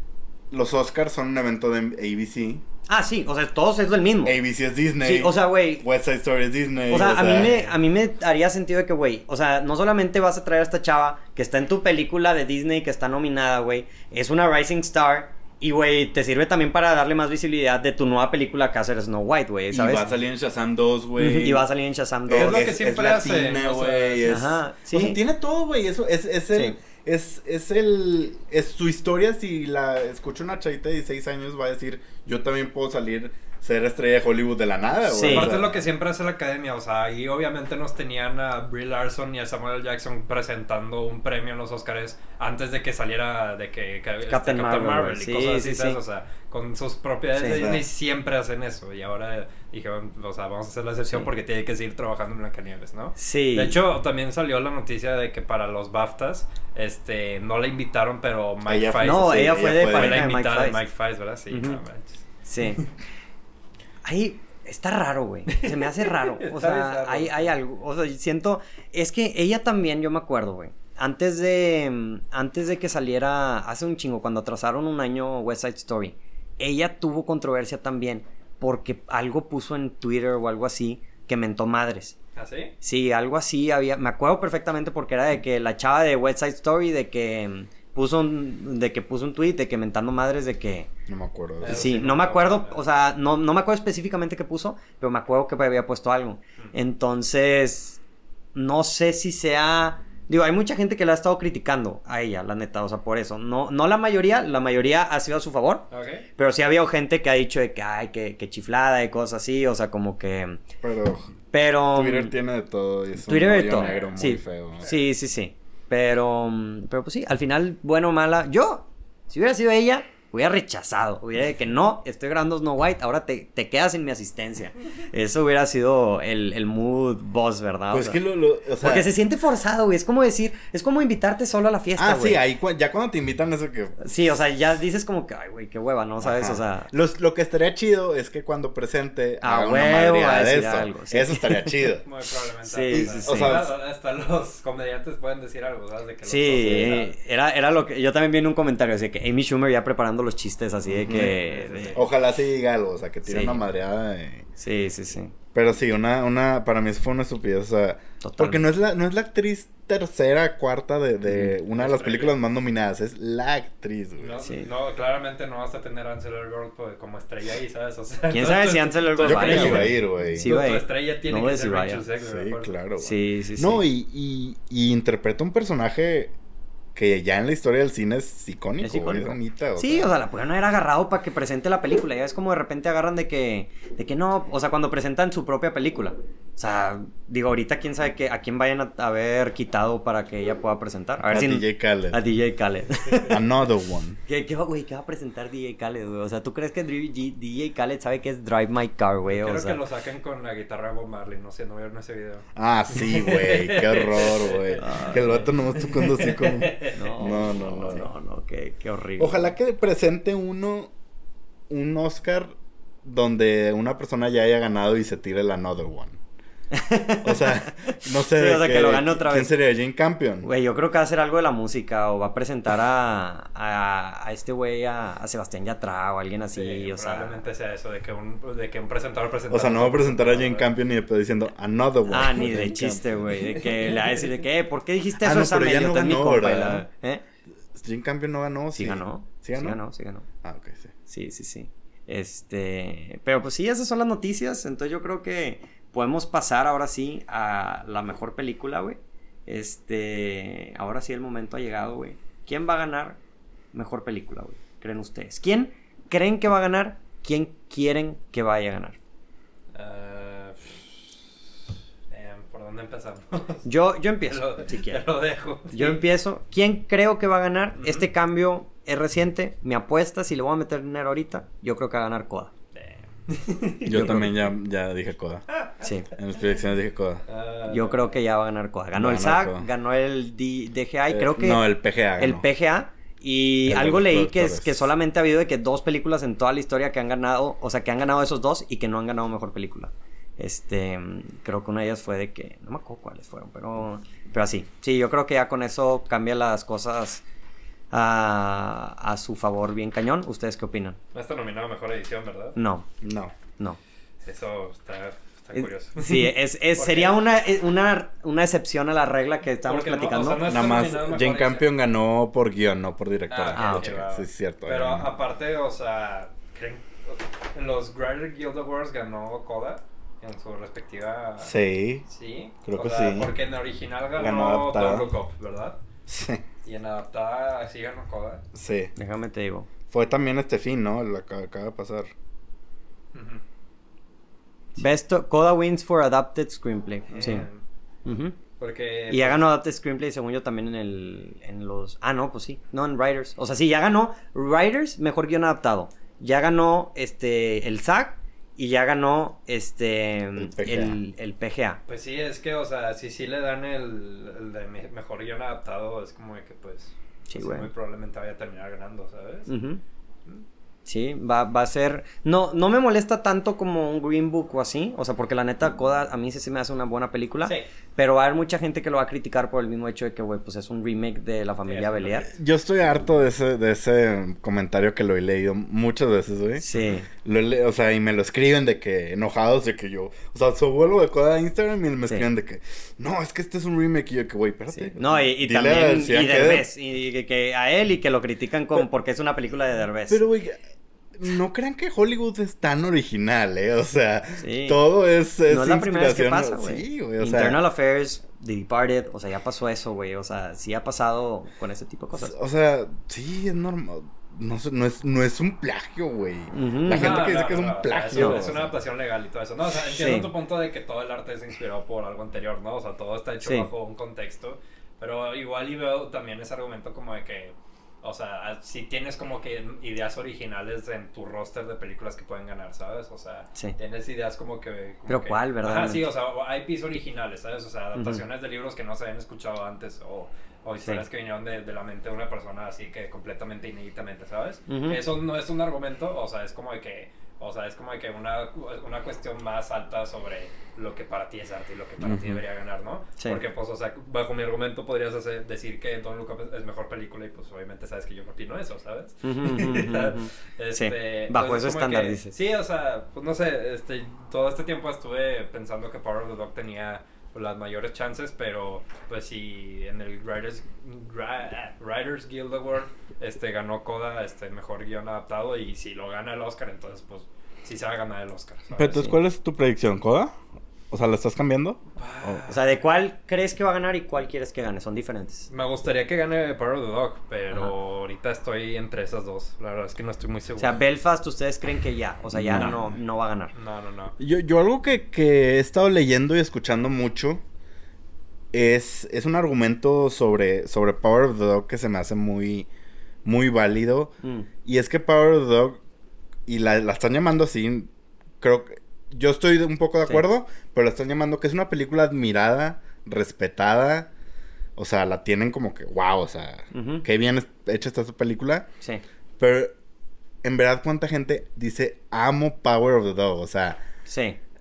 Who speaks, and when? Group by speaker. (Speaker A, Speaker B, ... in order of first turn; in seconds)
Speaker A: 0.5-2.6, 4.2-7.6, 19.7-21.7, 22.3-35.8, 47.5-47.9, 58.6-60.3, 91.1-91.9, 110.8-111.3, 111.9-114.9, 127.9-129.1, 131.9-134.1, 136.2-142.1, 142.9-143.7, 146.6-147.0, 150.8-151.3, 151.9-154.4, 155.5-164.4, 169.2-170.5, 172.2-176.3, 176.9-180.1, 191.2-192.2, 193.3-194.2, 202.6-208.1, 209.2-210.9, 211.7-216.2, 217.2-220.5, 229.5-233.5, 235.2-236.9, 237.7-239.8, 240.4-240.9, 273.9-275.4, 276.0-277.2, 278.9-279.7, 281.1-282.4, 283.6-284.9, 303.0-303.3, 310.4-315.1, 321.4-322.0, 322.6-323.3, 324.1-325.1, 326.1-326.4, 328.5-328.9, 329.9-332.1, 350.4-351.0, 372.3-386.7, 390.1-390.6, 391.1-397.6, 402.1-408.7, 442.0-442.4, 468.8-470.3, 470.9-472.4, 482.3-482.9, 484.2-487.4, 488.5-492.7, 493.2-494.1, 494.6-495.8, 496.5-497.9, 498.4-504.1, 504.8-508.7, 509.4-509.7, 510.4-513.8
Speaker B: 2.9-4.4, 5.0-5.8, 6.9-20.1, 21.2-22.7, 24.2-25.2, 35.1-35.5, 44.3-46.0, 47.4-47.6, 51.0-51.3, 53.1-53.8, 59.0-60.8, 61.5-61.8, 62.4-62.8, 64.0-82.2, 82.8-90.9, 91.7-98.0, 98.5-110.6, 111.5-112.3, 113.2-128.2, 128.8-132.4, 134.0-136.9, 139.4-141.8, 142.6-143.6, 146.2-152.0, 153.2-153.6, 154.6-155.3, 158.2-158.6, 161.2-161.6, 164.4-164.7, 168.3-172.0, 173.0-173.8, 178.8-193.4, 194.2-199.8, 204.8-205.5, 206.9-209.5, 216.7-219.5, 220.4-227.4, 232.1-237.2, 238.7-240.2, 241.1-253.2, 253.7-259.0, 263.6-265.0, 265.7-272.5, 273.9-274.4, 275.8-276.1, 277.7-281.6, 282.2-297.2, 297.9-301.0, 302.6-302.9, 305.5-310.4, 313.5-313.9, 328.9-329.7, 334.8-337.5, 338.1-338.4, 339.1-351.8, 357.3-357.7, 359.5-359.8, 360.9-372.3, 376.6-377.1, 384.7-390.2, 394.4-394.8, 395.5-402.4, 406.5-407.3, 408.1-408.4, 409.9-410.3, 413.4-413.7, 425.1-426.0, 427.9-428.2, 434.7-435.0, 449.2-452.3, 468.9-469.2, 472.5-475.5, 480.6-483.5, 494.2-494.5, 506.7-507.1, 514.1-514.4
Speaker C: 22.3-24.3, 35.2-62.2, 65.5-67.5, 82.3-82.7, 91.6-92.8, 105.9-106.2, 113.8-114.1, 142.0-147.1, 151.1-152.1, 161.7-162.3, 164.2-172.7, 199.3-208.0, 226.5-230.7, 233.6-234.2, 259.7-261.2, 262.1-263.6, 264.3-266.1, 267.8-268.1, 272.7-274.2, 277.3-278.1, 301.1-302.6, 304.2-307.1, 309.6-311.6, 313.3-325.8, 326.6-328.4, 333.1-333.4, 337.1-337.6, 338.6-339.4, 351.9-359.5, 371.7-372.3, 406.9-469.0, 472.0-472.7, 475.5-480.8, 482.6-482.8, 483.5-484.1